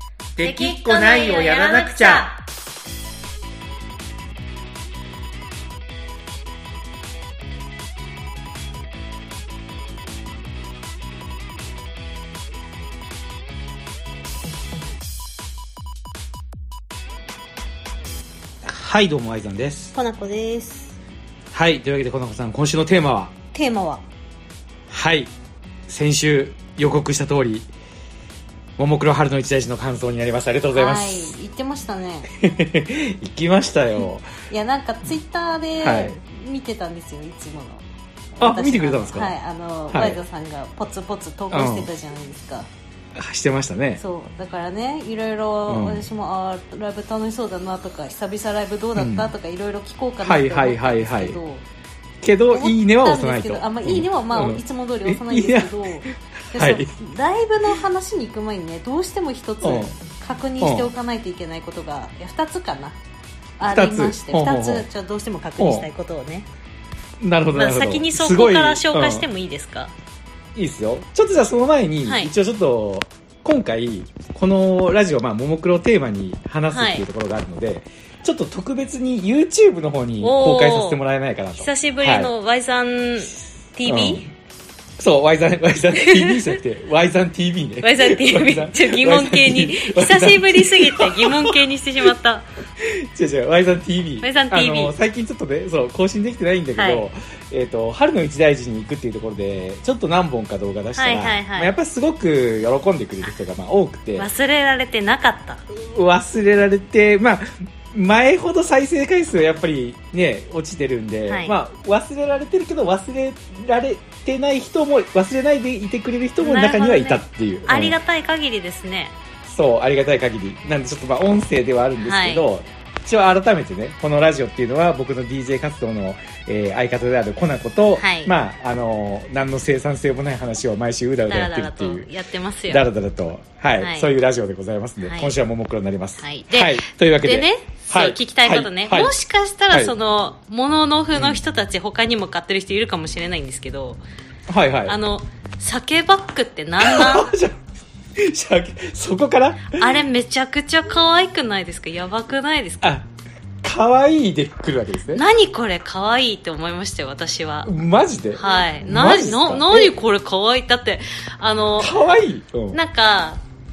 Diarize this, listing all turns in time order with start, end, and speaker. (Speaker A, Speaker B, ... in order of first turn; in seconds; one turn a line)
Speaker A: 0.3-2.3
Speaker B: 0.4-2.4
Speaker A: 18.6-19.9
Speaker B: 19.9-21.0
Speaker A: 21.5-23.3
Speaker B: 23.5-24.0
Speaker A: 24.9-25.3
Speaker A: 25.9-27.7
Speaker A: 28.8-31.3
Speaker B: 30.7-32.3
Speaker A: 32.3-34.2
Speaker B: 34.5-37.8
Speaker A: 35.8-36.1
Speaker B: 38.4-42.7
Speaker A: 38.4-39.4
Speaker A: 39.9-40.2
Speaker A: 41.5-41.9
Speaker A: 43.1-44.0
Speaker B: 44.0-51.6
Speaker A: 45.7-46.1
Speaker A: 49.0-49.3
Speaker A: 50.2-51.4
Speaker A: 52.2-56.9
Speaker B: 52.5-63.0
Speaker A: 59.6-59.9
Speaker A: 60.6-60.9
Speaker B: 63.6-66.5
Speaker A: 63.6-64.9
Speaker A: 65.6-65.8
Speaker A: 67.2-69.2
Speaker B: 67.5-69.9
Speaker A: 70.5-82.3
Speaker B: 72.0-72.3
Speaker B: 76.7-77.0
Speaker B: 80.2-81.0
Speaker B: 81.6-84.3
Speaker A: 83.9-84.2
Speaker A: 85.0-91.6
Speaker B: 85.9-86.6
Speaker B: 87.8-92.5
Speaker A: 92.8-104.3
Speaker B: 94.2-95.0
Speaker B: 96.8-97.0
Speaker B: 100.9-101.7
Speaker B: 104.2-105.6
Speaker A: 105.7-118.0
Speaker B: 111.3-111.5
Speaker B: 116.4-119.1
Speaker A: 119.5-132.1
Speaker B: 122.0-122.4
Speaker B: 128.0-128.3
Speaker B: 131.3-132.9
Speaker A: 132.7-139.1
Speaker B: 133.8-134.1
Speaker B: 135.0-135.3
Speaker B: 136.2-144.0
Speaker A: 141.1-141.4
Speaker A: 144.5-144.9
Speaker B: 144.8-147.3
Speaker A: 146.8-147.6
Speaker A: 148.2-150.0
Speaker B: 149.8-153.0
Speaker A: 153.6-155.2
Speaker B: 155.1-157.7
Speaker A: 157.6-159.9
Speaker B: 158.3-162.0
Speaker A: 161.8-162.8
Speaker B: 162.7-163.4